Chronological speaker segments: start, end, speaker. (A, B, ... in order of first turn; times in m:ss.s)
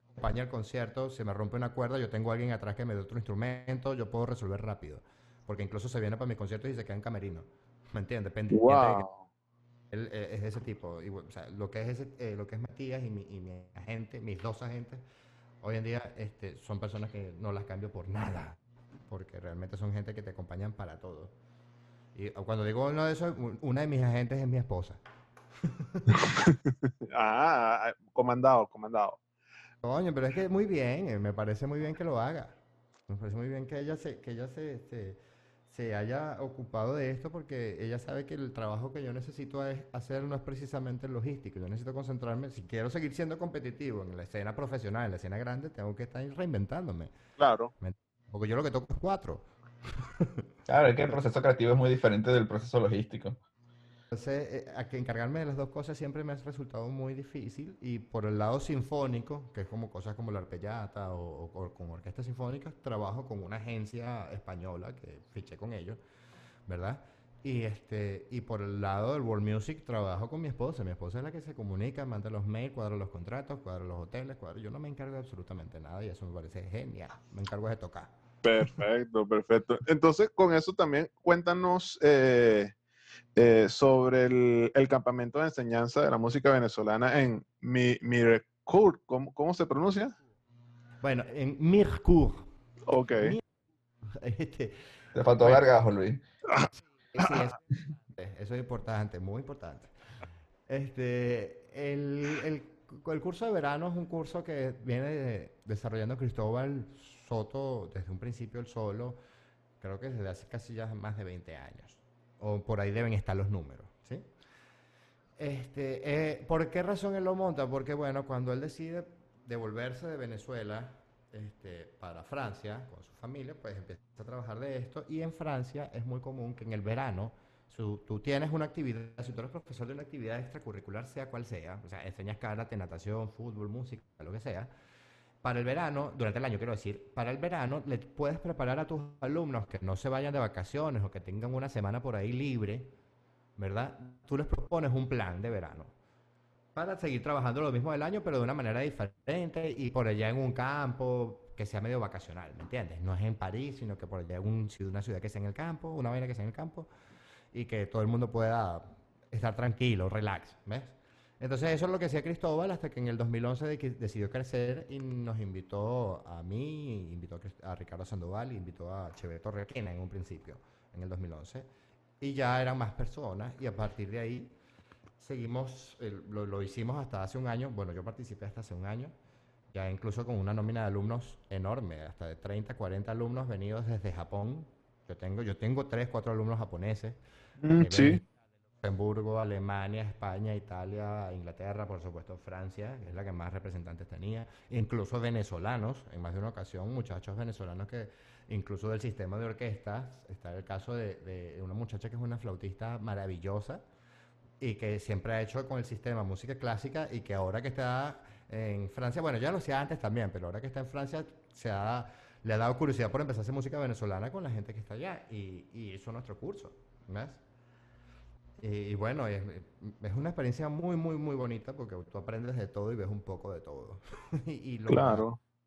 0:00.2-0:09.1 A
0:08.5-0:09.3 B
0:09.9-0:15.0 A
0:15.6-0:18.6 A
0:19.1-0:21.3 A
0:22.2-0:25.0 A
0:25.6-0:26.2 A
0:26.2-0:29.2 B
0:29.8-0:47.2 A
0:47.4-0:47.7 B
0:47.8-0:49.4 A
0:50.0-0:50.4 A
0:50.7-0:53.4 C
0:54.1-1:06.0 A
1:06.7-1:18.1 A
1:18.4-1:22.7 B
1:23.4-1:30.2 B
1:31.0-1:32.5 A
1:32.9-1:33.4 B
1:34.1-1:34.8 A
1:35.1-1:36.2 C
1:36.7-1:39.9 A
1:40.7-1:49.2 A
1:49.8-1:54.3 A
1:55.4-2:14.7 A
2:15.4-2:22.9 A
2:23.6-2:25.9 A
2:26.8-2:36.9 A
2:37.5-2:51.7 A
2:52.2-2:54.5 A
2:55.2-2:59.1 A
2:59.7-3:07.2 A
3:07.6-3:08.2 B
3:07.8-3:08.2 A
3:08.8-3:23.8 A
3:24.6-3:37.4 A
3:38.6-3:45.2 A
3:44.9-3:45.4 B